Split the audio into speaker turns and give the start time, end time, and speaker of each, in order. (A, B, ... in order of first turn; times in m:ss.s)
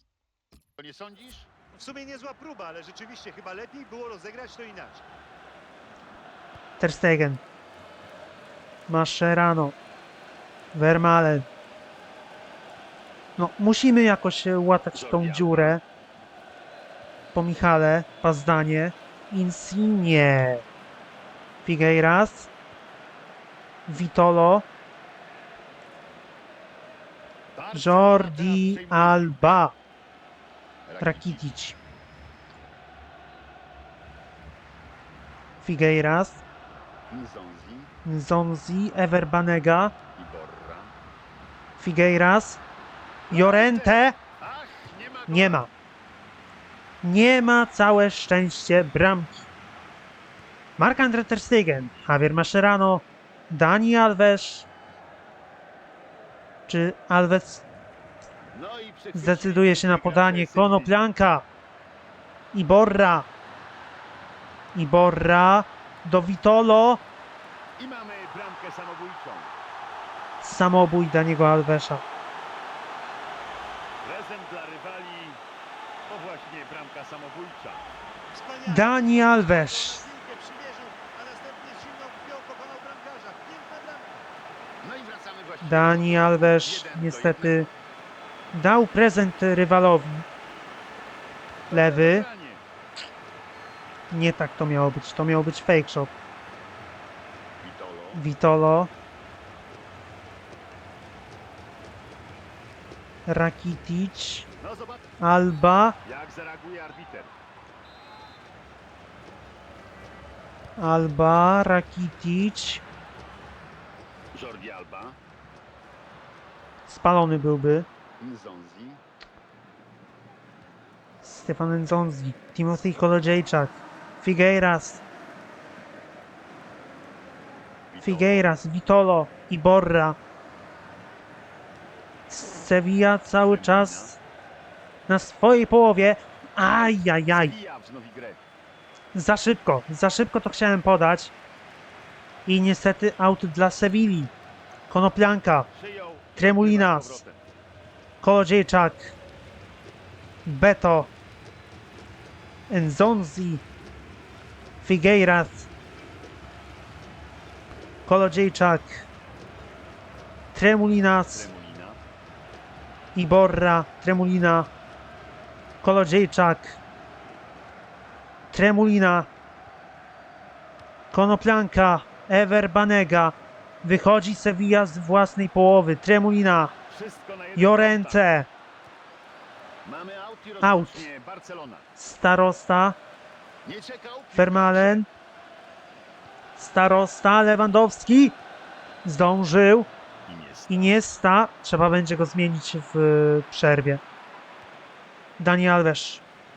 0:00.8-0:01.5 A
0:01.7-0:05.0 B
0:06.8-0:07.4 C
0:08.9-0:09.8 C
0:10.7-0:11.5 C
0:13.4-0:15.8 C
0:14.9-0:15.8 A
0:17.3-0:20.6 C
0:21.6-0:22.5 C
0:23.9-0:24.7 C
0:27.5-0:29.6 A
0:27.7-0:29.7 C
0:30.9-0:31.5 A
0:31.0-0:31.8 C
0:35.6-0:36.4 C
0:37.1-0:37.9 A
0:38.0-0:39.9 C
0:40.1-0:40.9 A
0:41.8-0:42.6 C
0:43.3-0:45.7 A
0:43.3-0:44.2 C
0:45.3-0:45.7 C
0:47.0-0:49.4 C
0:50.8-0:54.7 C
0:56.7-0:57.6 C
0:58.5-1:00.9 A
0:59.1-1:01.4 C
1:02.5-1:03.3 C
1:04.7-1:07.0 C
1:07.8-1:09.5 A
1:10.4-1:12.0 C
1:14.0-1:15.4 A
1:16.1-1:17.8 A
1:18.3-1:24.2 B
1:18.6-1:20.0 C
1:24.8-1:27.7 A
1:25.6-1:27.7 C
1:28.5-1:30.2 C
1:31.7-1:32.6 A
1:31.7-1:32.2 C
1:34.1-1:36.1 C
1:37.6-1:38.2 A
1:38.1-1:38.9 C
1:43.3-1:44.5 C
1:44.6-1:45.1 A
1:45.2-1:46.0 C
1:46.0-1:47.3 A
1:50.8-1:52.8 C
1:54.3-1:55.2 A
1:56.9-1:57.9 C
1:58.2-1:59.0 A
2:01.2-2:05.0 C
2:07.9-2:08.4 A
2:08.0-2:10.2 C
2:12.3-2:14.2 C
2:13.4-2:14.2 A
2:15.1-2:17.6 C
2:16.8-2:18.4 A
2:19.1-2:21.3 C
2:22.4-2:24.3 C
2:24.9-2:25.7 C
2:25.7-2:27.4 A
2:26.4-2:27.2 C
2:28.2-2:29.1 C
2:30.4-2:31.1 C
2:32.7-2:33.6 C
2:34.8-2:35.7 C
2:38.0-2:39.1 C
2:40.5-2:41.5 C
2:41.3-2:42.0 A
2:43.1-2:44.7 C
2:45.8-2:46.8 C
2:48.5-2:49.3 C
2:51.1-2:56.7 C
2:56.9-2:58.2 A
2:57.6-2:58.5 C
2:59.8-3:01.9 A
3:00.6-3:01.1 C
3:02.0-3:03.0 C
3:03.6-3:05.0 A
3:04.4-3:05.1 C
3:06.6-3:08.4 C
3:09.0-3:09.9 C
3:10.2-3:11.0 A
3:10.7-3:14.0 C
3:15.4-3:16.2 C